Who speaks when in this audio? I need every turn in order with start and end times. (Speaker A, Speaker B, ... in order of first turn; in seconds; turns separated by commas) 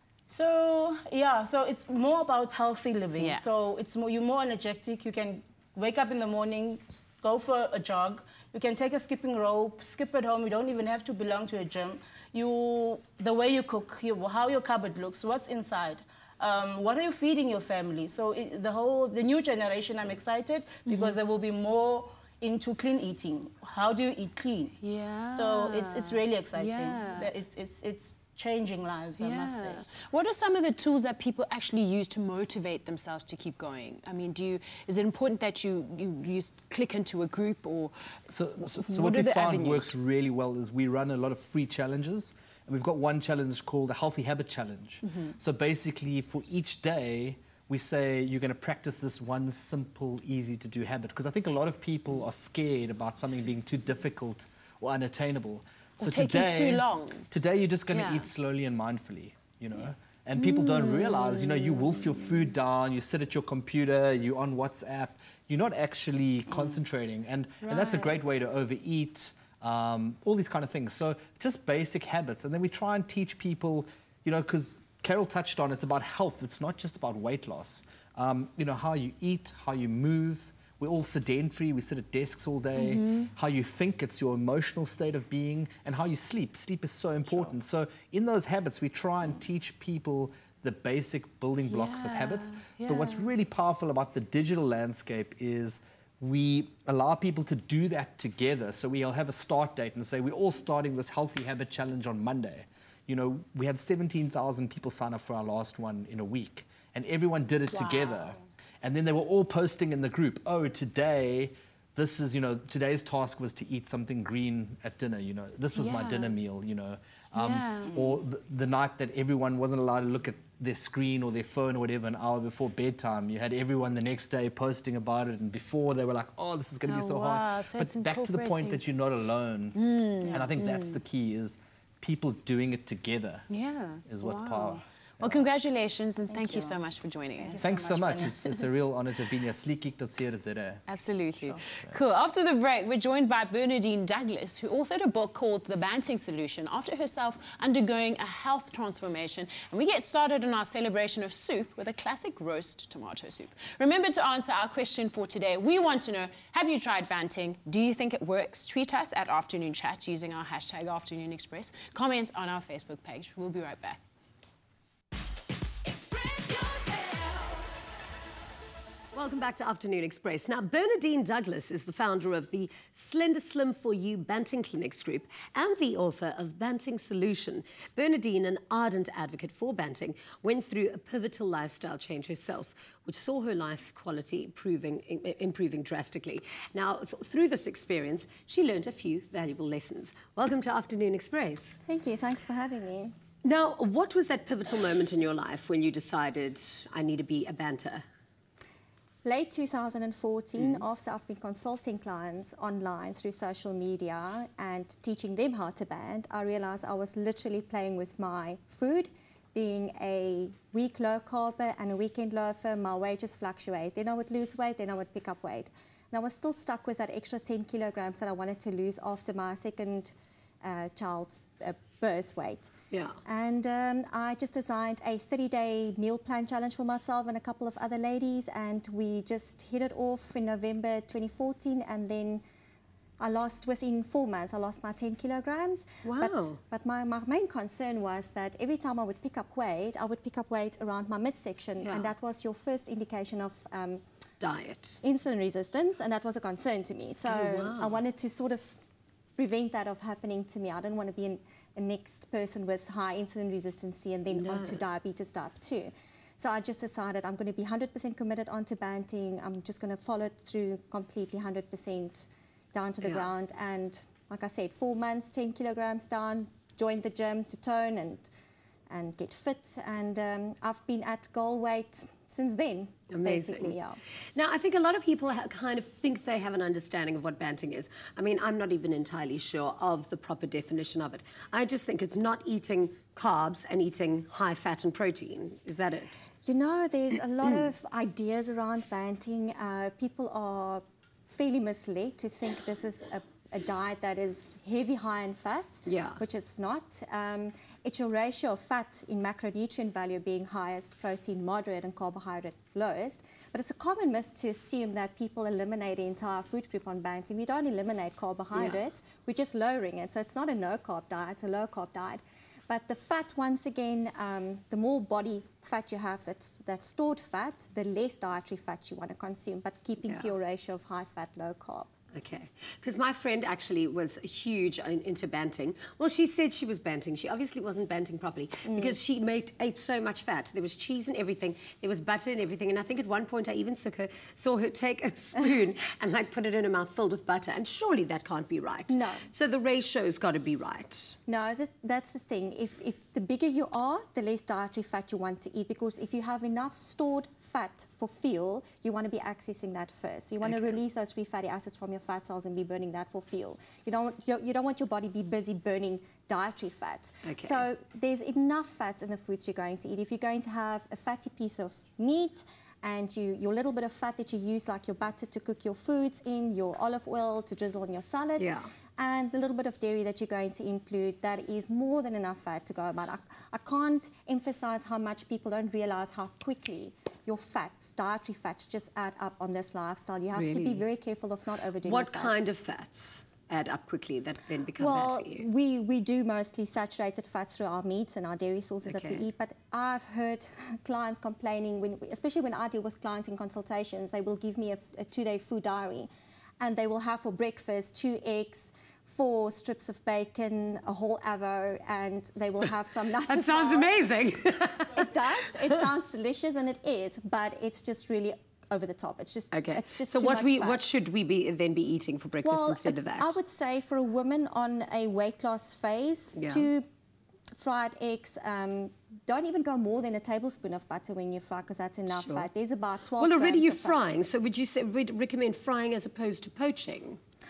Speaker A: 0.3-24.7, Speaker B: 3.2-3.4, Speaker B: 20.9-21.2, Speaker B: 24.8-27.3, Speaker A: 25.3-29.8, Speaker B: 29.2-39.9, Speaker C: 38.3-133.5, Speaker B: 45.0-45.3, Speaker B: 56.0-57.3, Speaker B: 57.9-58.3, Speaker B: 60.4-62.2, Speaker A: 66.5-66.8, Speaker B: 67.6-68.2, Speaker B: 82.8-83.3, Speaker B: 91.7-93.3, Speaker B: 107.7-108.3, Speaker B: 115.8-116.4, Speaker B: 117.3-118.1, Speaker B: 126.9-128.8, Speaker B: 129.8-131.0, Speaker B: 133.5-137.7, Speaker C: 134.1-135.5, Speaker A: 136.3-136.8, Speaker A: 137.3-138.5, Speaker C: 137.6-140.8, Speaker B: 140.9-164.0, Speaker D: 169.1-191.8, Speaker E: 191.9-193.1, Speaker D: 193.4-198.1, Speaker E: 199.2-222.7, Speaker D: 200.6-200.8, Speaker D: 222.9-223.2, Speaker E: 223.2-232.4, Speaker E: 233.2-244.0, Speaker D: 236.0-236.6, Speaker D: 241.8-242.1, Speaker D: 244.4-245.0, Speaker E: 245.0-248.8, Speaker D: 247.2-248.0, Speaker E: 249.4-268.3, Speaker D: 254.3-254.8, Speaker D: 263.0-263.3, Speaker E: 268.9-274.0, Speaker D: 273.1-273.8, Speaker D: 274.4-286.3, Speaker E: 286.4-321.9, Speaker D: 295.9-296.2, Speaker D: 308.5-308.8, Speaker D: 320.0-320.3, Speaker D: 322.1-341.2, Speaker E: 328.7-329.0, Speaker E: 338.9-339.2, Speaker E: 341.3-382.5, Speaker D: 350.4-350.8, Speaker D: 357.2-357.7, Speaker D: 368.4-368.7, Speaker D: 380.3-380.8, Speaker D: 381.8-385.5, Speaker E: 384.8-396.1, Speaker D: 388.8-389.3, Speaker E: 396.6-404.0, Speaker D: 403.2-405.8, Speaker E: 404.9-410.9, Speaker D: 409.5-413.4, Speaker E: 412.4-416.9, Speaker D: 416.4-416.7, Speaker E: 417.6-424.2, Speaker D: 422.1-422.5, Speaker D: 423.2-427.2